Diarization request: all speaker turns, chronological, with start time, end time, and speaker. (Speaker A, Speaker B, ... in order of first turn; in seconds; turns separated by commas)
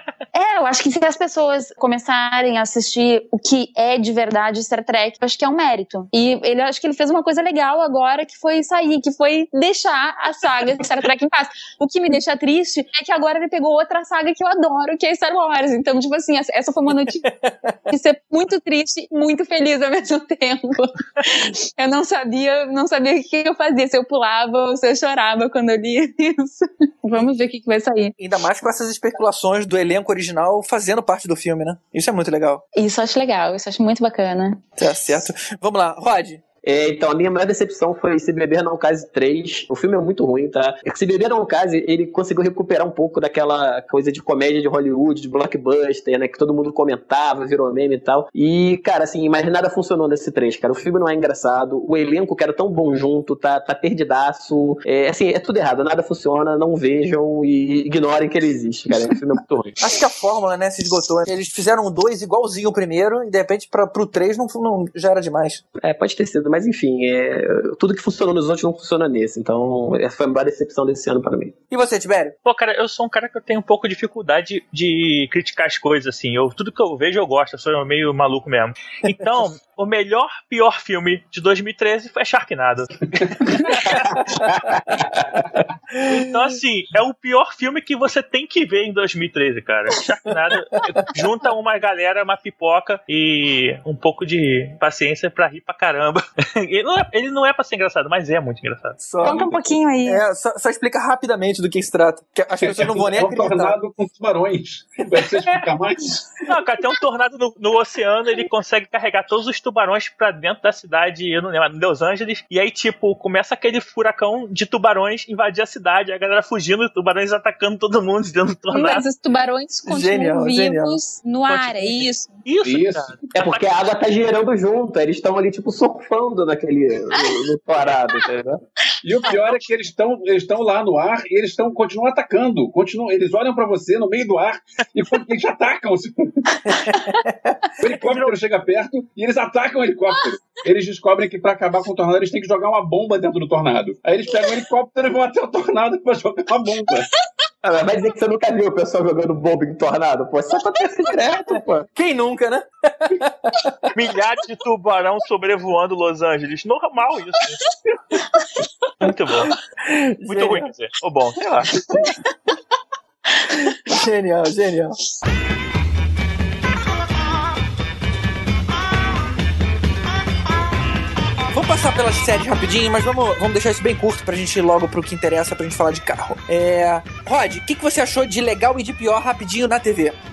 Speaker A: 0.3-17.3, Speaker B: 17.1-17.7, Speaker A: 17.9-28.1, Speaker B: 28.2-32.6, Speaker A: 32.7-34.6, Speaker B: 34.8-36.4, Speaker C: 36.6-59.8, Speaker B: 59.8-65.6, Speaker C: 65.8-71.5, Speaker B: 71.7-72.3, Speaker D: 72.5-84.2, Speaker D: 86.0-99.0, Speaker B: 86.0-86.3, Speaker B: 90.8-91.0, Speaker B: 99.0-103.8, Speaker A: 99.2-100.2, Speaker E: 99.2-99.8, Speaker E: 102.6-106.3, Speaker D: 106.5-119.0, Speaker A: 118.7-122.4, Speaker B: 119.9-121.0, Speaker D: 121.5-123.9, Speaker E: 122.6-123.3, Speaker C: 123.3-128.6, Speaker E: 129.0-136.6, Speaker B: 136.7-138.3, Speaker A: 136.8-137.2, Speaker E: 137.8-147.1, Speaker C: 147.6-151.9, Speaker B: 151.9-153.9, Speaker D: 153.9-157.6, Speaker D: 159.0-159.5, Speaker B: 159.8-160.7, Speaker D: 160.2-161.7, Speaker B: 163.7-165.0, Speaker B: 171.5-180.2